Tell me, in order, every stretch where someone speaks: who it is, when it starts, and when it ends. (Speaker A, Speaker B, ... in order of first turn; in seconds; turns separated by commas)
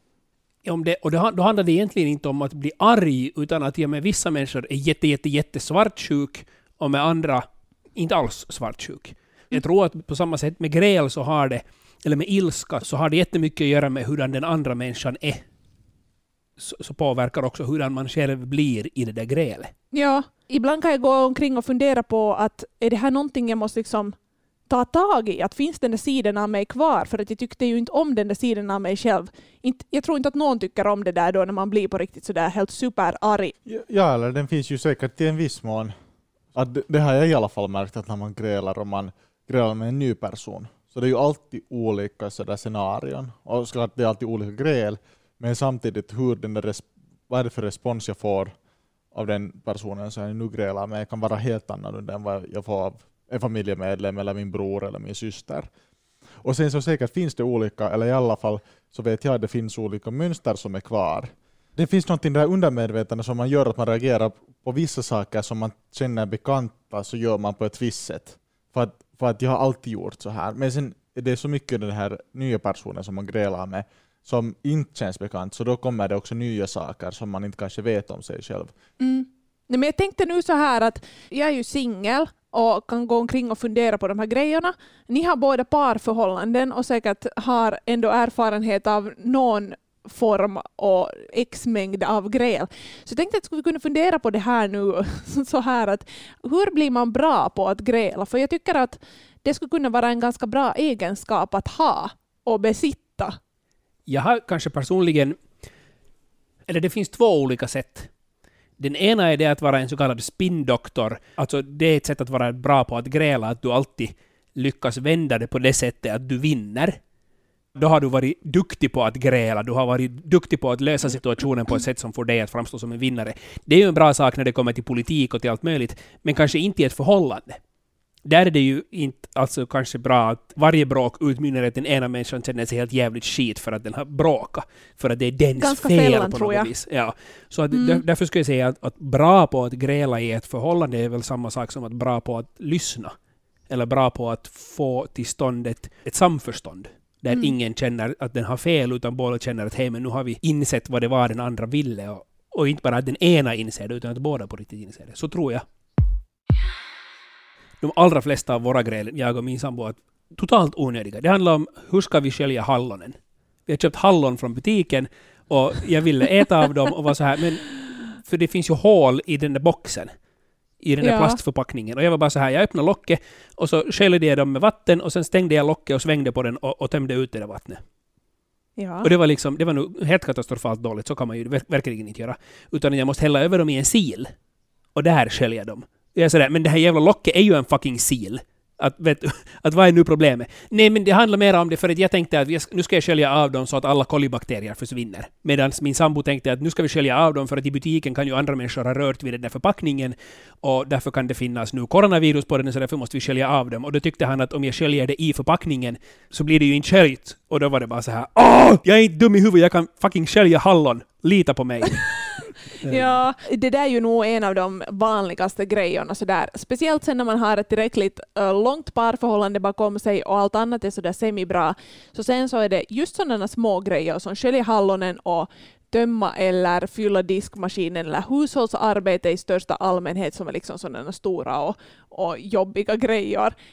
Speaker A: 0.7-15.4, Speaker A: 16.6-19.7, Speaker B: 19.9-24.1, Speaker B: 24.7-33.5, Speaker C: 33.7-35.9, Speaker C: 36.5-48.5, Speaker C: 49.1-55.7, Speaker C: 56.4-78.7, Speaker B: 79.0-103.4, Speaker A: 104.1-105.4, Speaker A: 106.7-108.1, Speaker A: 108.8-117.0, Speaker A: 117.8-127.6, Speaker A: 128.2-143.1, Speaker B: 135.6-136.7, Speaker B: 137.7-138.0, Speaker A: 143.7-155.6, Speaker A: 157.8-170.1, Speaker A: 170.8-177.8, Speaker B: 171.0-171.4, Speaker B: 178.8-179.1, Speaker A: 179.0-184.3, Speaker A: 184.9-212.2, Speaker A: 212.8-213.1, Speaker B: 212.8-233.5